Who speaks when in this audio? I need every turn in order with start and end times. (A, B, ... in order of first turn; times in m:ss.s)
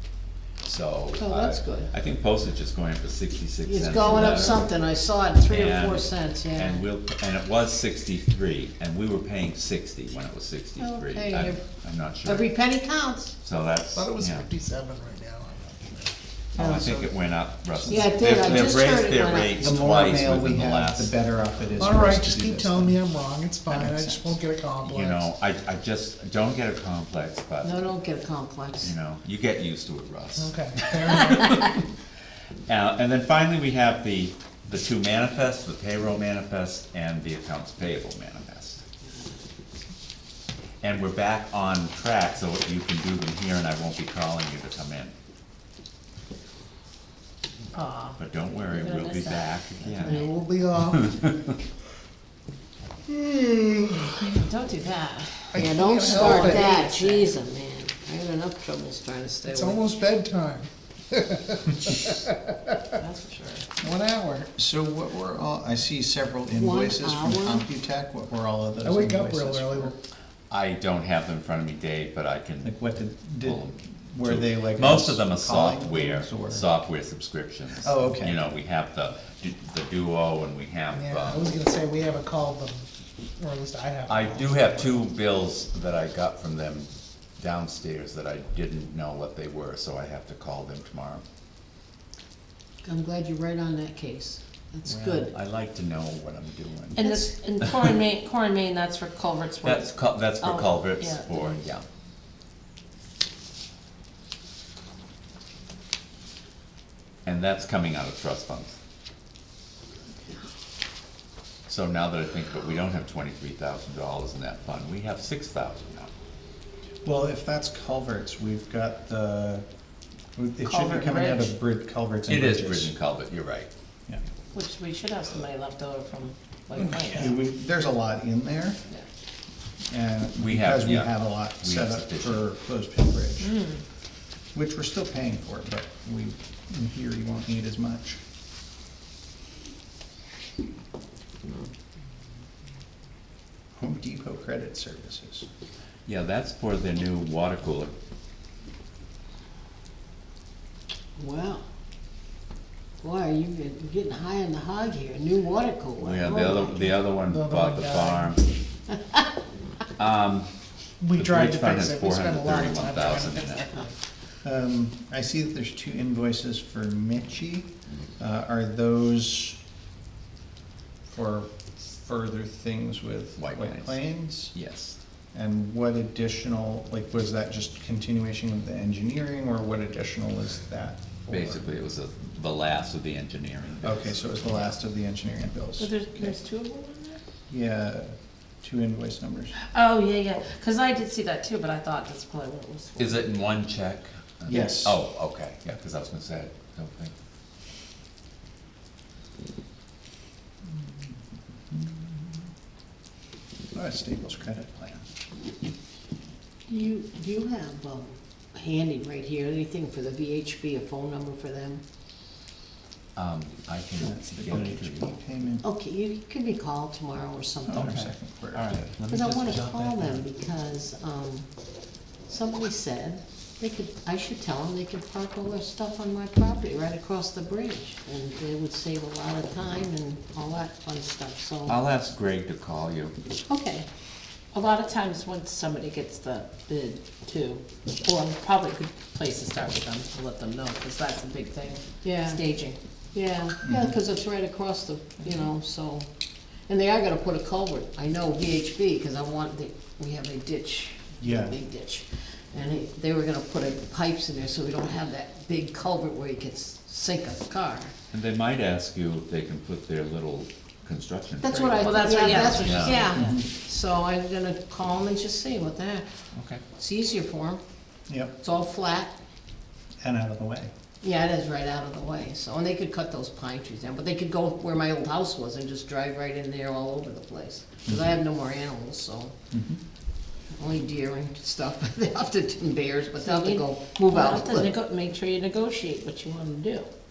0:00.6-0:04.7 A
0:01.2-0:01.9 B
0:03.6-0:06.9 B
0:05.5-0:12.5 A
0:10.8-0:11.6 B
0:12.2-0:13.3 B
0:13.4-0:14.5 A
0:13.9-0:16.7 C
0:16.6-0:21.1 A
0:16.6-0:18.7 D
0:17.9-0:19.8 B
0:19.6-0:23.0 D
0:21.8-0:25.3 C
0:23.7-0:24.3 D
0:24.8-0:27.7 A
0:27.6-0:28.9 B
0:28.8-0:31.8 A
0:30.4-0:31.6 C
0:32.7-0:38.8 A
0:40.8-0:45.1 A
0:47.7-0:50.3 E
0:48.2-0:51.6 A
0:50.0-0:51.1 C
0:53.1-0:54.3 C
0:54.2-0:57.3 E
0:55.5-0:56.7 C
0:55.6-0:59.8 B
0:59.5-1:02.8 C
1:03.0-1:03.6 E
1:03.8-1:04.5 C
1:04.6-1:09.9 D
1:06.5-1:07.6 B
1:08.8-1:10.0 C
1:10.5-1:12.8 A
1:12.6-1:16.7 D
1:13.4-1:21.5 A
1:17.8-1:18.4 D
1:20.9-1:25.0 C
1:24.1-1:31.2 A
1:32.8-1:35.3 B
1:34.8-1:37.0 A
1:37.0-1:41.7 E
1:37.0-1:37.3 B
1:39.6-1:41.8 A
1:47.2-1:48.8 A
1:51.7-1:56.1 A
1:57.0-1:59.6 D
2:00.4-2:02.9 D
2:00.6-2:01.5 E
2:02.3-2:03.7 A
2:04.5-2:07.4 E
2:06.8-2:08.8 D
2:09.9-2:13.6 D
2:10.4-2:12.4 A
2:13.4-2:13.8 E
2:14.5-2:18.2 D
2:23.7-2:25.5 D
2:26.0-2:27.9 A
2:31.2-2:31.6 B
2:33.0-2:37.0 B
2:36.0-2:38.4 A
2:37.2-2:38.4 C
2:40.0-2:40.5 A
2:41.0-2:43.9 C
2:41.1-2:43.7 A
2:44.4-2:47.7 D
2:48.2-2:49.6 D
2:51.1-2:54.5 D
2:53.4-2:55.0 A
2:55.3-3:01.7 D
3:01.3-3:04.7 A
3:03.8-3:06.3 D
3:05.8-3:07.2 E
3:07.5-3:09.5 D
3:09.6-3:13.3 E
3:13.0-3:17.1 A
3:14.5-3:15.0 D
3:20.7-3:21.1 D
3:21.7-3:22.2 D
3:23.7-3:25.0 D
3:26.7-3:31.8 B
3:33.2-3:35.1 A
3:34.0-3:35.6 D
3:35.6-3:38.0 B
3:37.6-3:40.2 D
3:37.7-3:39.7 A
3:39.1-3:41.5 B
3:42.3-3:51.8 B
3:51.7-3:53.1 A
3:53.4-3:53.8 B
3:54.5-4:02.8 E
4:02.0-4:02.4 B
4:03.1-4:06.1 B
4:03.6-4:04.0 D
4:06.7-4:17.9 B
4:11.2-4:11.5 D
4:18.1-4:23.0 A
4:21.4-4:26.1 B
4:21.7-4:23.3 E
4:23.2-4:23.4 D
4:26.3-4:26.6 A
4:26.8-4:27.6 B
4:28.1-4:28.3 D
4:28.4-4:29.1 B
4:30.0-4:30.7 D
4:31.0-4:39.3 B
4:39.5-4:39.8 D
4:40.5-4:44.7 B
4:43.2-4:46.9 E